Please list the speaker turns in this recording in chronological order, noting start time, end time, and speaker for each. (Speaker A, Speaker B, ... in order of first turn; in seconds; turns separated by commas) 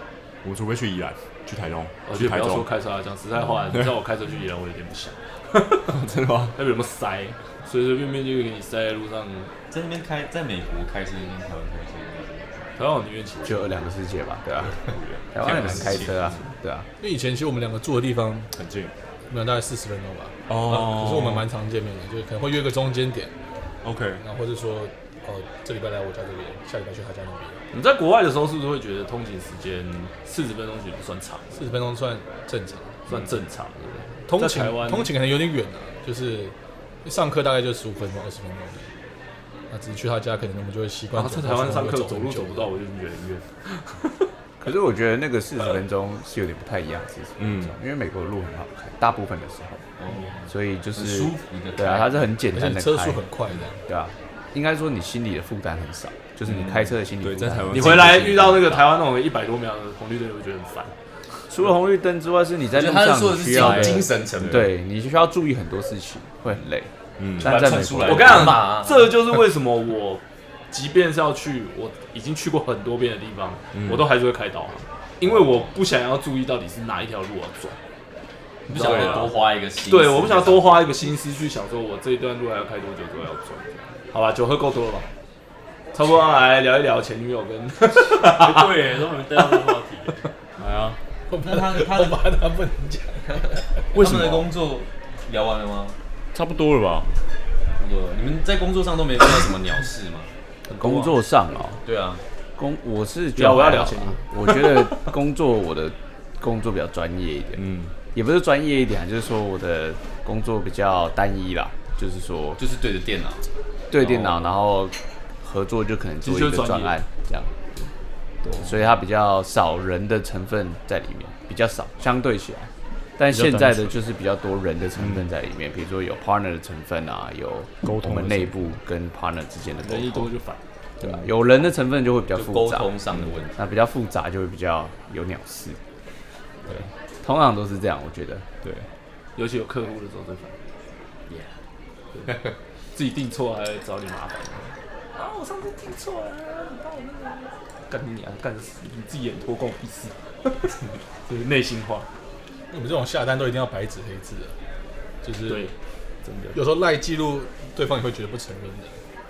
Speaker A: 0.4-2.7, Speaker B: 2.1-5.9, Speaker A: 5.9-6.5, Speaker B: 6.5-9.5, Speaker C: 9.7-12.7, Speaker B: 12.8-13.7, Speaker D: 13.4-14.8, Speaker A: 14.9-16.4, Speaker D: 15.3-16.9, Speaker C: 15.4-16.4, Speaker E: 17.0-18.5, Speaker A: 18.5-18.9, Speaker E: 19.3-23.3, Speaker A: 20.5-21.5, Speaker A: 23.8-24.2, Speaker E: 24.2-27.6, Speaker B: 27.7-31.6, Speaker E: 31.6-33.0, Speaker B: 33.1-35.1, Speaker E: 34.3-38.9, Speaker E: 39.7-42.7, Speaker B: 41.1-43.5, Speaker D: 44.6-49.9, Speaker A: 47.4-47.8, Speaker C: 50.0-52.3, Speaker D: 50.5-53.2, Speaker E: 52.5-53.8, Speaker D: 53.9-58.2, Speaker C: 56.5-56.8, Speaker A: 57.2-58.9, Speaker B: 57.7-60.9, Speaker D: 61.5-68.6, Speaker C: 62.7-64.7, Speaker A: 63.5-64.7, Speaker A: 67.2-67.7, Speaker C: 67.4-69.1, Speaker B: 68.0-77.8, Speaker A: 73.7-74.1, Speaker C: 78.7-80.9, Speaker B: 78.7-85.1, Speaker A: 78.7-79.3, Speaker B: 85.9-88.7, Speaker A: 88.1-91.0, Speaker E: 91.3-93.6, Speaker C: 91.4-92.2, Speaker C: 93.9-96.0, Speaker A: 93.9-94.5, Speaker A: 96.3-97.1, Speaker C: 97.8-100.3, Speaker B: 100.7-101.2, Speaker D: 100.8-101.8, Speaker C: 101.8-102.2, Speaker D: 102.6-107.6, Speaker B: 103.4-104.6, Speaker A: 107.6-107.9, Speaker D: 108.1-112.6, Speaker C: 112.6-113.5, Speaker D: 113.9-117.5, Speaker B: 116.2-117.0, Speaker D: 118.5-130.3, Speaker A: 123.3-124.0, Speaker A: 125.0-125.3, Speaker A: 127.8-128.7, Speaker B: 129.8-130.6, Speaker D: 131.0-132.9, Speaker C: 132.3-133.6, Speaker D: 133.6-135.8, Speaker D: 136.7-138.4, Speaker B: 139.4-140.6, Speaker B: 142.9-150.7, Speaker B: 151.3-152.1, Speaker E: 152.7-154.5, Speaker E: 155.2-155.7, Speaker B: 155.5-155.7, Speaker B: 156.2-156.6, Speaker E: 156.5-158.9